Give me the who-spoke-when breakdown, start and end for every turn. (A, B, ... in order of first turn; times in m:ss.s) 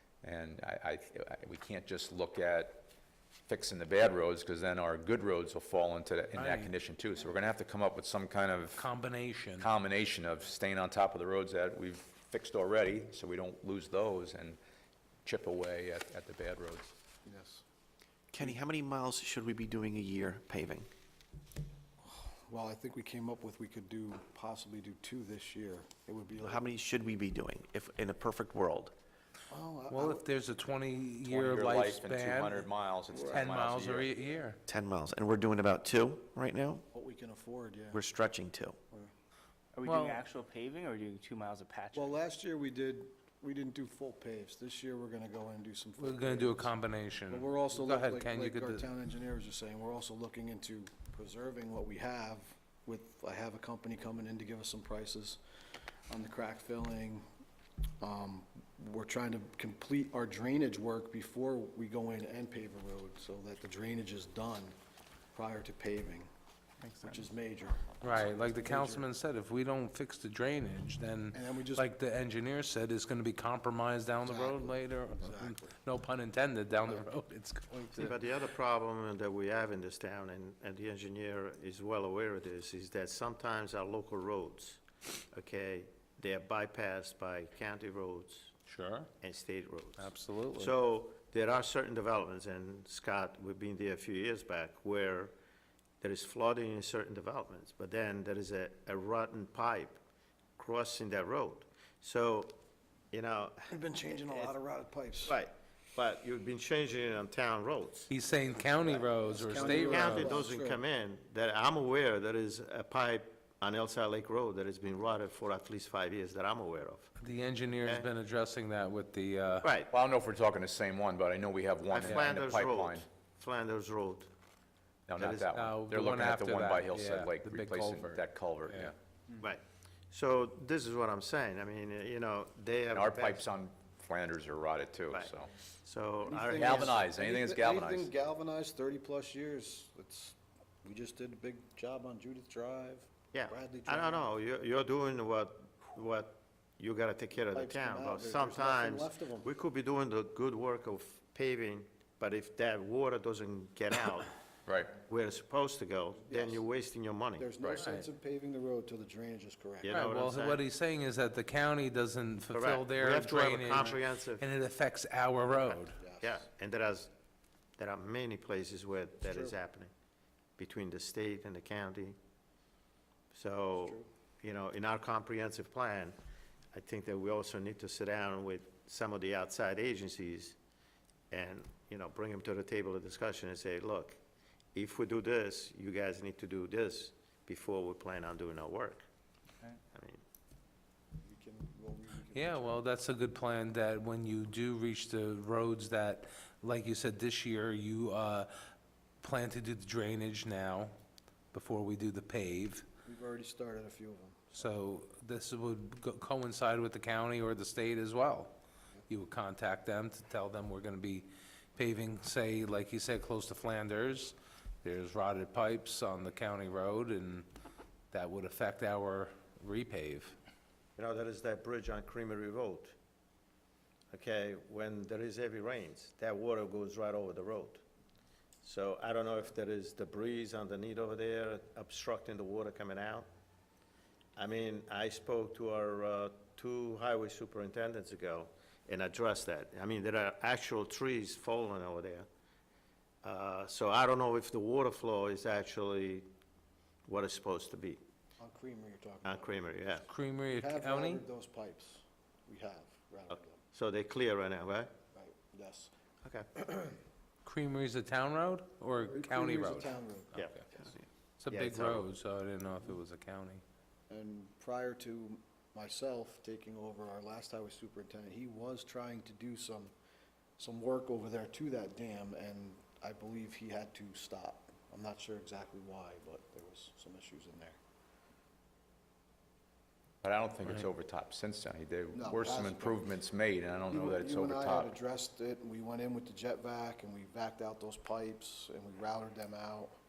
0:00.2-0:02.9 A
0:03.5-0:08.9 A
0:06.3-0:06.7 B
0:08.8-0:09.7 B
0:09.6-0:14.6 A
0:15.2-0:16.9 A
0:17.2-0:17.6 C
0:18.3-0:20.9 D
0:22.0-0:26.7 C
0:26.4-0:28.9 D
0:29.5-0:30.3 C
0:29.9-0:32.7 B
0:31.2-0:34.1 A
0:33.1-0:33.5 C
0:33.3-0:34.6 B
0:34.6-0:36.8 D
0:36.9-0:38.0 C
0:37.9-0:38.8 D
0:39.8-0:42.1 E
0:39.8-0:40.2 B
0:41.9-0:46.7 C
0:46.0-0:48.8 B
0:47.3-0:55.4 C
0:56.1-0:57.2 C
0:58.0-1:04.7 C
1:05.3-1:06.3 C
1:07.0-1:09.1 C
1:08.0-1:18.1 B
1:11.3-1:11.9 C
1:14.2-1:15.8 C
1:17.7-1:18.1 C
1:18.0-1:28.5 F
1:28.7-1:29.1 B
1:29.2-1:35.3 F
1:30.0-1:30.7 B
1:36.0-1:40.0 F
1:40.6-1:42.6 F
1:43.1-1:43.7 F
1:43.7-1:45.4 C
1:45.2-1:48.1 F
1:48.1-1:50.4 B
1:48.5-1:50.8 C
1:49.5-1:57.1 F
1:57.2-1:59.7 B
1:57.8-1:58.1 F
1:59.6-1:59.9 F
1:59.9-2:03.0 A
2:01.9-2:04.3 F
2:02.0-2:02.4 B
2:05.1-2:08.9 A
2:05.2-2:05.5 F
2:05.5-2:08.9 B
2:09.4-2:13.4 F
2:12.9-2:15.5 A
2:15.8-2:17.0 F
2:16.2-2:24.3 C
2:16.5-2:18.1 A
2:23.3-2:34.3 F
2:27.5-2:29.5 C
2:34.6-2:34.9 A
2:35.0-2:37.5 F
2:36.3-2:36.6 C
2:37.4-2:40.0 C
2:37.7-2:38.0 B
2:39.8-2:40.6 F
2:39.9-2:46.0 B
2:42.5-2:44.4 F
2:46.0-2:46.4 C
2:46.2-2:47.1 F
2:47.8-2:49.9 F
2:49.3-2:49.5 C
2:50.6-2:52.2 F
2:53.3-2:56.1 F
2:53.8-2:54.1 C
2:56.7-3:00.6 F
3:01.3-3:04.2 F
3:04.7-3:09.0 F
3:09.9-3:10.2 F
3:11.2-3:12.8 C
3:12.3-3:18.5 B
3:19.2-3:21.0 B
3:21.5-3:22.8 B
3:23.0-3:24.7 C
3:24.6-3:28.6 B
3:29.1-3:37.5 B
3:38.1-3:40.4 B
3:41.0-3:42.9 F
3:44.1-3:47.8 F
3:48.6-3:53.3 F
3:54.4-4:02.3 F
4:03.2-4:06.3 F
4:07.1-4:08.0 F
4:08.4-4:09.6 C
4:09.2-4:10.0 F
4:10.1-4:11.2 B
4:10.6-4:13.6 C
4:13.3-4:14.9 F
4:15.1-4:15.9 C
4:16.6-4:16.9 C
4:17.4-4:20.5 B
4:19.0-4:20.4 C
4:20.3-4:22.1 F
4:21.4-4:23.6 B
4:24.1-4:29.9 C
4:30.6-4:37.8 C
4:40.2-4:44.9 A
4:42.1-4:43.0 C
4:43.9-4:49.9 C